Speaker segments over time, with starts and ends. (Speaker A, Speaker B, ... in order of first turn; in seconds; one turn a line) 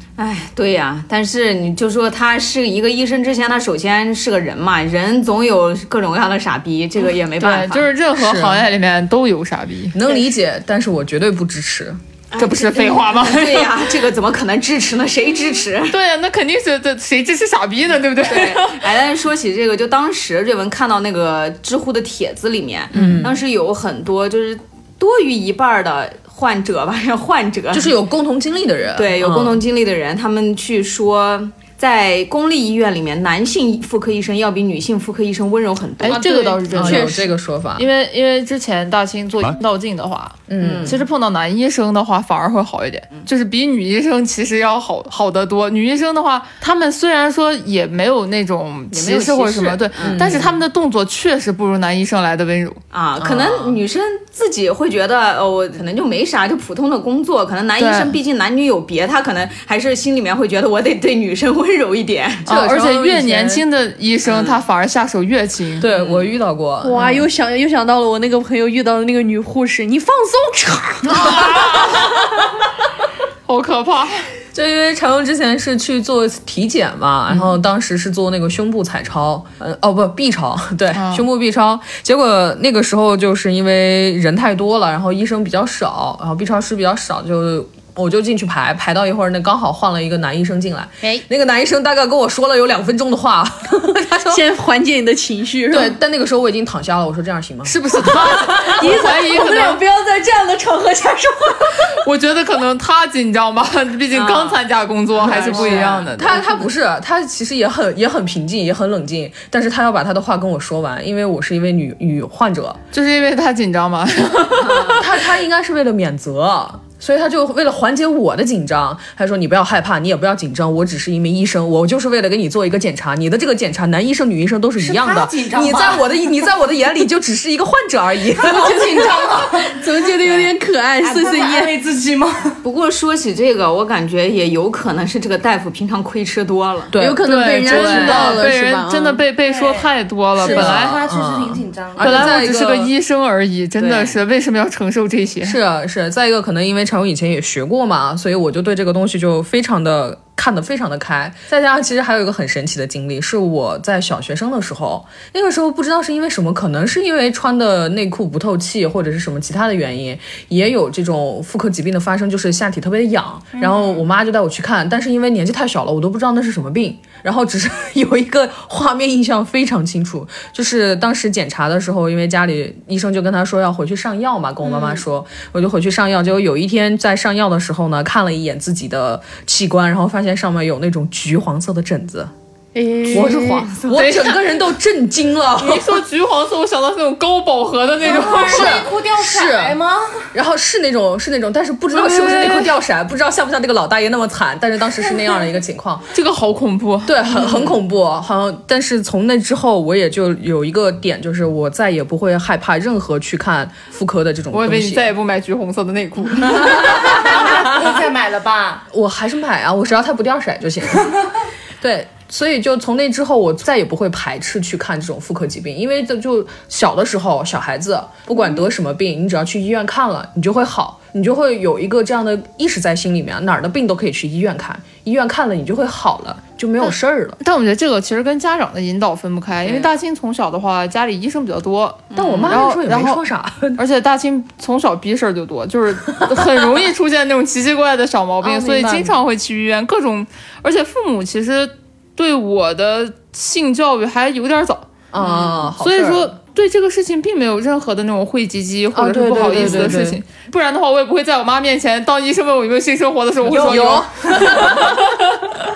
Speaker A: 0.2-7.9
Speaker B: 7.4-10.0
Speaker C: 8.1-8.7
Speaker C: 9.9-12.0
Speaker A: 12.3-16.0
Speaker B: 12.4-13.8
Speaker B: 15.9-18.8
Speaker A: 18.2-27.9
Speaker C: 22.9-23.4
Speaker B: 22.9-23.2
Speaker C: 27.7-29.6
Speaker A: 28.9-36.2
Speaker B: 36.0-52.8
Speaker D: 36.1-37.2
Speaker C: 36.7-37.9
Speaker C: 40.5-41.0
Speaker A: 40.6-41.0
Speaker A: 48.9-50.5
Speaker C: 50.0-50.6
Speaker A: 52.9-62.5
Speaker C: 53.2-53.8
Speaker B: 57.8-58.1
Speaker C: 62.5-63.6
Speaker B: 62.5-65.8
Speaker A: 64.2-64.6
Speaker C: 65.8-67.2
Speaker A: 65.8-66.3
Speaker D: 66.8-71.6
Speaker B: 71.1-72.2
Speaker B: 73.5-74.2
Speaker C: 74.5-94.4
Speaker B: 80.9-81.2
Speaker D: 93.9-96.0
Speaker C: 95.7-98.4
Speaker B: 97.6-99.8
Speaker D: 98.1-102.0
Speaker B: 101.9-106.5
Speaker A: 104.1-104.6
Speaker A: 105.2-106.3
Speaker C: 105.3-112.8
Speaker B: 112.9-115.2
Speaker C: 114.8-128.9
Speaker E: 124.8-126.5
Speaker E: 128.4-129.7
Speaker D: 128.5-131.8
Speaker E: 131.0-132.6
Speaker A: 132.6-136.9
Speaker C: 136.9-138.5
Speaker D: 137.0-139.2
Speaker B: 137.2-141.0
Speaker E: 139.4-142.4
Speaker C: 140.4-142.9
Speaker B: 142.0-145.6
Speaker A: 143.8-144.2
Speaker C: 145.4-182.3
Speaker D: 182.7-183.7
Speaker C: 183.1-186.0
Speaker A: 183.7-184.2
Speaker B: 183.9-184.4
Speaker B: 185.6-188.8
Speaker E: 188.0-190.3
Speaker C: 188.1-189.8
Speaker C: 190.3-196.1
Speaker B: 191.9-192.7
Speaker B: 196.1-197.6
Speaker C: 197.1-205.1
Speaker B: 204.5-207.3
Speaker E: 206.8-208.8
Speaker C: 208.9-211.2
Speaker C: 211.8-227.4
Speaker B: 227.4-233.2
Speaker A: 229.6-229.9
Speaker A: 232.1-232.6
Speaker C: 232.1-233.8
Speaker B: 233.8-255.0
Speaker C: 238.4-239.1
Speaker C: 245.1-246.3
Speaker C: 248.9-250.2
Speaker A: 249.6-249.9
Speaker C: 253.4-255.1